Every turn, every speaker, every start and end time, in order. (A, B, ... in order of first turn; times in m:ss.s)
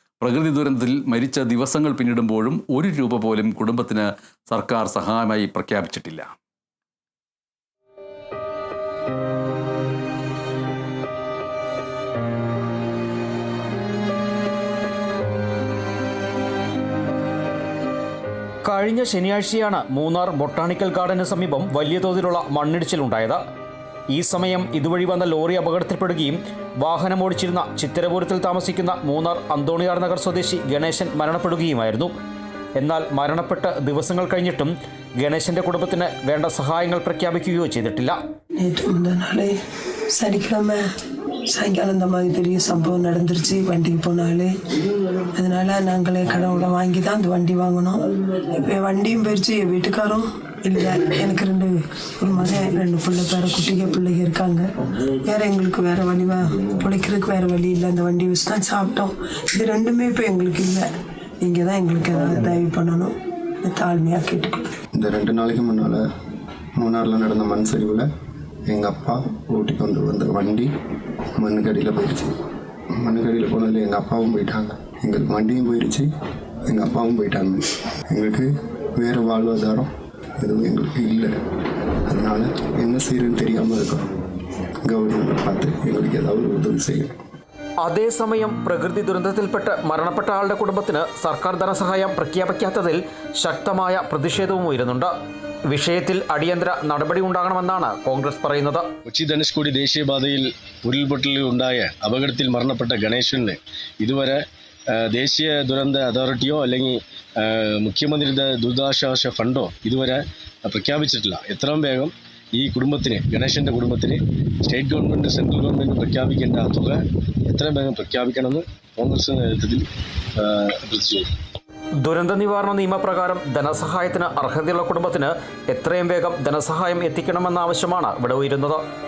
0:00.2-0:06.3 A
0:18.6-0:23.4 B
0:24.1-0:32.1 B
0:32.8-0:38.2 B
0:38.6-0:39.6 C
0:40.1-0:40.8 C
0:41.5-0:44.5 C
0:45.4-0:54.7 C
0:55.2-1:00.9 C
1:01.4-1:04.7 C
1:05.0-1:06.0 D
1:06.8-1:08.1 D
1:08.7-1:10.7 D
1:11.4-1:12.4 D
1:12.9-1:16.1 D
1:16.7-1:21.3 D
1:22.1-1:24.0 D
1:24.8-1:27.2 D
1:27.8-1:35.1 B
1:35.7-1:38.9 B
1:39.1-1:44.4 E
1:44.9-2:01.3 E
2:02.0-2:08.8 B